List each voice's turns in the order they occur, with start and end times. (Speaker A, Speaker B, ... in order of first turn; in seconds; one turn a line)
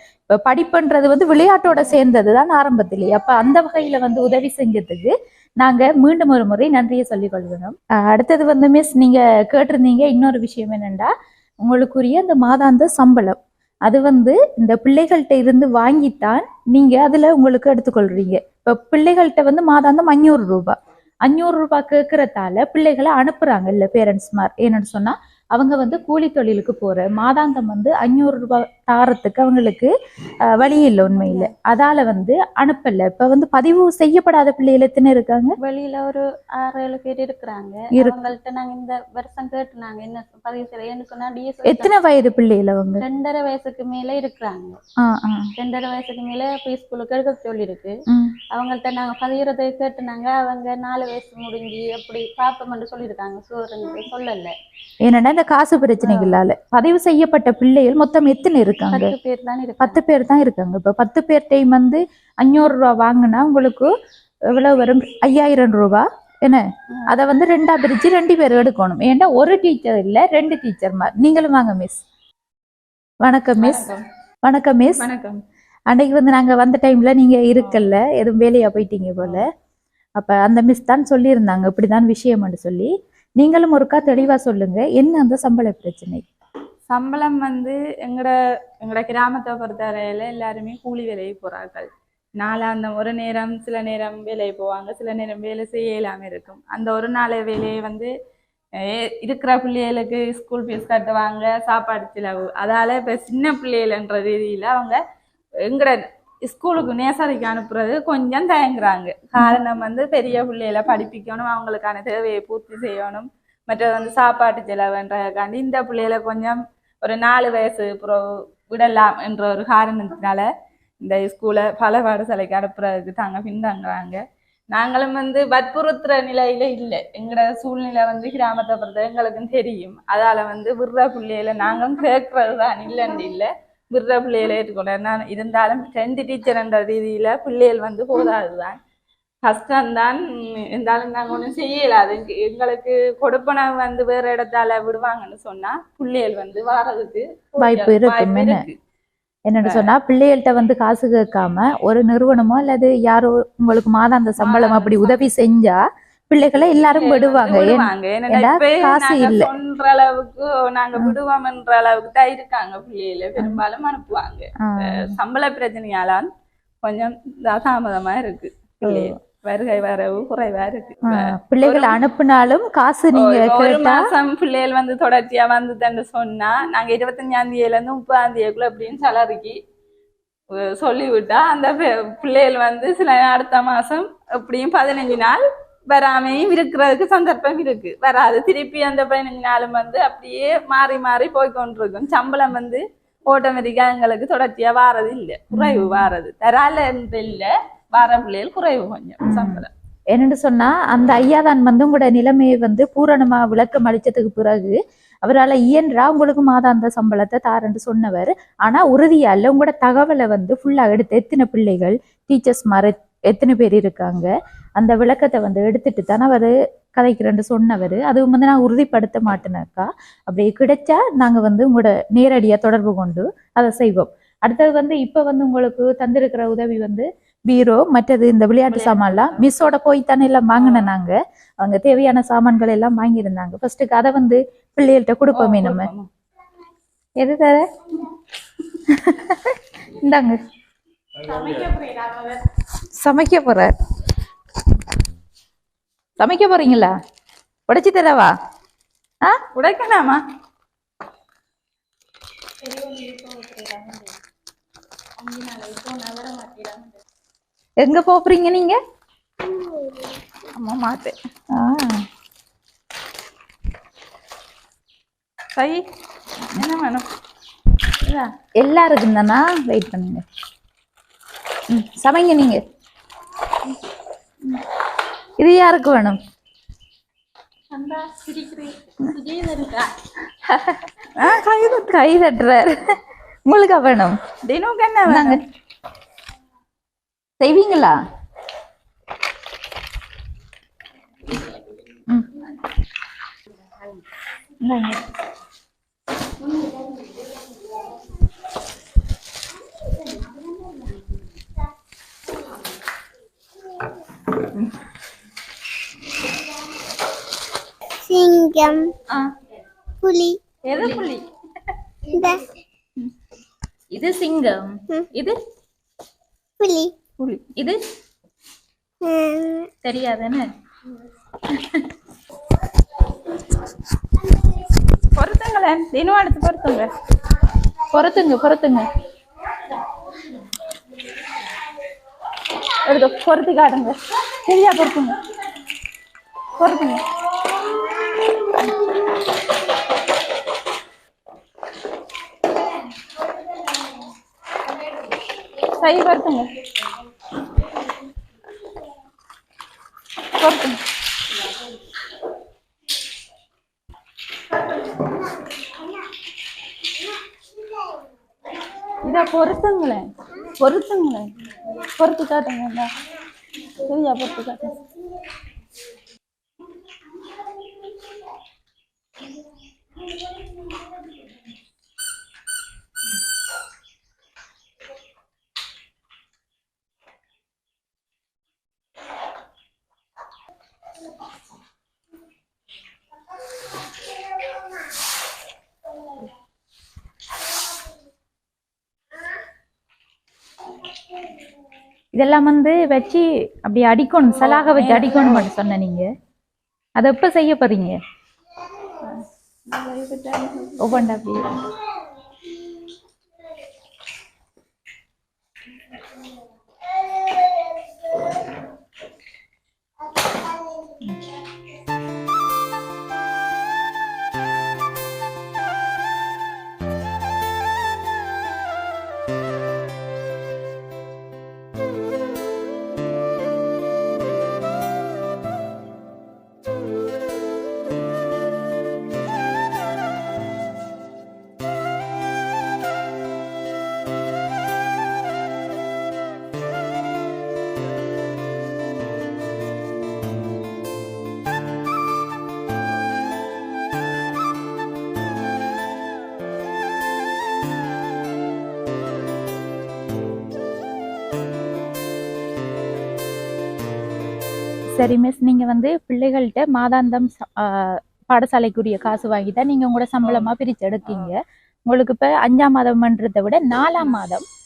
Speaker A: 0.3-11.1
Speaker A: 11.6-20.8
Speaker A: 21.3-29.9
Speaker A: 30.5-35.5
Speaker B: 31.0-31.5
Speaker B: 35.6-41.9
Speaker A: 41.6-43.0
Speaker B: 43.0-44.8
Speaker A: 45.0-45.5
Speaker B: 45.6-48.0
Speaker B: 48.5-54.6
Speaker A: 55.0-59.1
Speaker B: 58.9-60.0
Speaker A: 59.8-63.9
Speaker A: 64.5-72.0
Speaker A: 73.2-73.9
Speaker C: 73.6-74.0
Speaker A: 74.5-75.0
Speaker C: 75.0-75.4
Speaker A: 75.9-79.5
Speaker C: 77.6-78.0
Speaker A: 80.2-86.2
Speaker C: 86.9-91.9
Speaker C: 92.4-98.1
Speaker C: 98.8-105.0
Speaker C: 105.7-120.5
Speaker C: 121.0-124.2
Speaker C: 124.7-138.8
Speaker C: 139.4-148.8
Speaker A: 147.6-148.6
Speaker A: 149.5-159.5
Speaker C: 149.6-149.9
Speaker C: 154.4-155.3
Speaker C: 156.8-166.3
Speaker A: 164.6-165.1
Speaker C: 166.8-172.0
Speaker A: 168.8-169.1
Speaker A: 171.1-174.1
Speaker C: 173.1-179.6
Speaker C: 180.5-199.7
Speaker A: 195.5-196.1
Speaker A: 199.2-235.9
Speaker C: 228.7-229.5
Speaker C: 230.5-230.9
Speaker C: 235.3-236.1
Speaker A: 237.2-238.1
Speaker A: 238.9-240.4
Speaker B: 241.3-242.4
Speaker C: 241.3-242.1
Speaker A: 243.0-243.7
Speaker A: 246.2-246.9
Speaker A: 247.7-248.3
Speaker C: 249.5-250.2
Speaker B: 252.6-254.2
Speaker B: 255.2-257.0
Speaker A: 257.8-258.8
Speaker C: 260.6-261.2
Speaker A: 261.5-262.0
Speaker C: 265.6-265.8
Speaker C: 266.5-267.1
Speaker A: 268.6-270.2
Speaker A: 271.7-272.6
Speaker A: 275.4-276.2
Speaker B: 277.8-280.0
Speaker A: 280.5-280.8
Speaker C: 281.2-281.9
Speaker A: 281.7-282.9
Speaker A: 283.5-284.2
Speaker C: 284.4-285.4
Speaker A: 285.1-285.4
Speaker A: 287.4-287.9
Speaker A: 292.1-292.4
Speaker A: 294.6-295.0
Speaker B: 296.6-297.1
Speaker B: 300.3-300.9
Speaker D: 308.0-308.9
Speaker D: 310.0-310.4
Speaker C: 310.7-311.3
Speaker A: 310.8-311.1
Speaker D: 312.1-312.5
Speaker A: 313.9-315.4
Speaker D: 316.6-316.9
Speaker C: 317.2-317.5
Speaker D: 319.0-319.7
Speaker A: 319.8-320.5
Speaker A: 321.6-321.8
Speaker C: 325.2-326.9
Speaker A: 327.9-328.9
Speaker C: 332.8-335.2
Speaker C: 336.6-337.0
Speaker C: 345.7-346.6
Speaker C: 350.3-350.8
Speaker C: 359.0-362.9
Speaker C: 363.8-364.8
Speaker A: 392.2-396.1
Speaker C: 394.3-395.5
Speaker A: 397.0-398.0
Speaker C: 399.0-401.2
Speaker A: 400.8-401.7
Speaker A: 455.0-464.4
Speaker C: 460.2-460.5
Speaker C: 461.1-461.3